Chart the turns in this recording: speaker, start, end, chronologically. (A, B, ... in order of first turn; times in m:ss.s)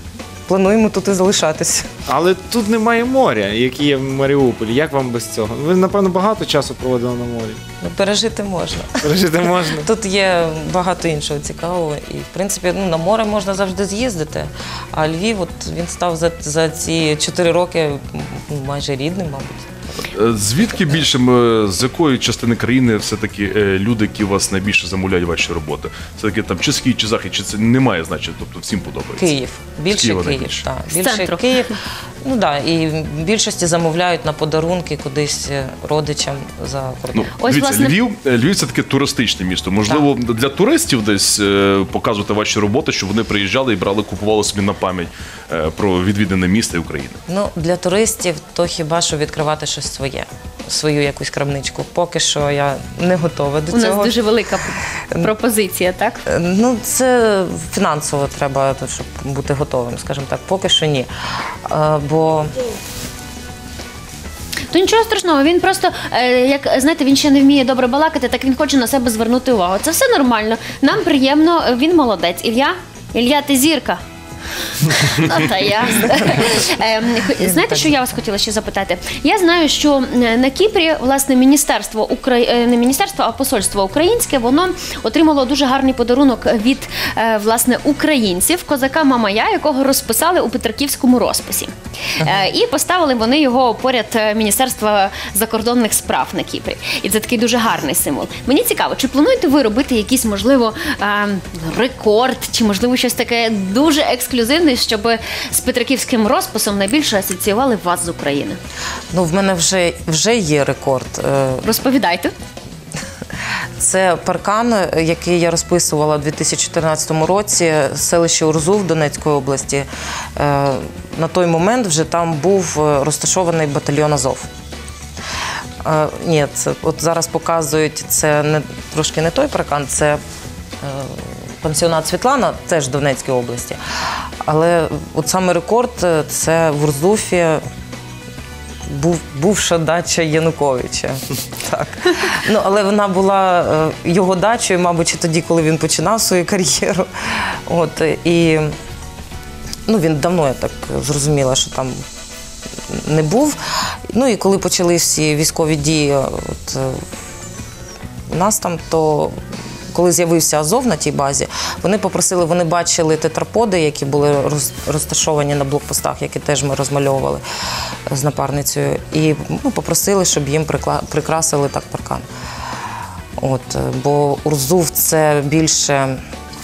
0:00.5-0:01.9 A
0:02.1-0:07.6 B
0:07.8-0:19.7 A
0:09.0-0:09.9 B
0:20.0-0:30.7 C
0:29.2-0:37.3 A
0:30.9-0:31.7 D
0:37.1-0:47.2 C
0:37.4-0:38.0 D
0:47.3-0:54.2 A
0:53.7-0:56.2 D
0:56.3-1:01.1 A
1:01.7-1:02.5 A
1:04.7-1:14.0 D
1:14.8-1:48.6 D
1:17.3-1:18.2 A
1:49.1-1:51.7 A
1:51.6-1:52.3 D
1:53.8-2:04.5 A
2:05.8-2:10.2 A
2:10.8-2:13.8 A
2:14.4-2:17.6 A
2:18.9-2:28.7 A
2:29.9-2:32.0 A
2:32.9-2:37.0 A
2:38.3-2:39.4 A
2:39.9-2:47.4 A
2:48.1-2:52.2 A
2:53.4-2:56.2 A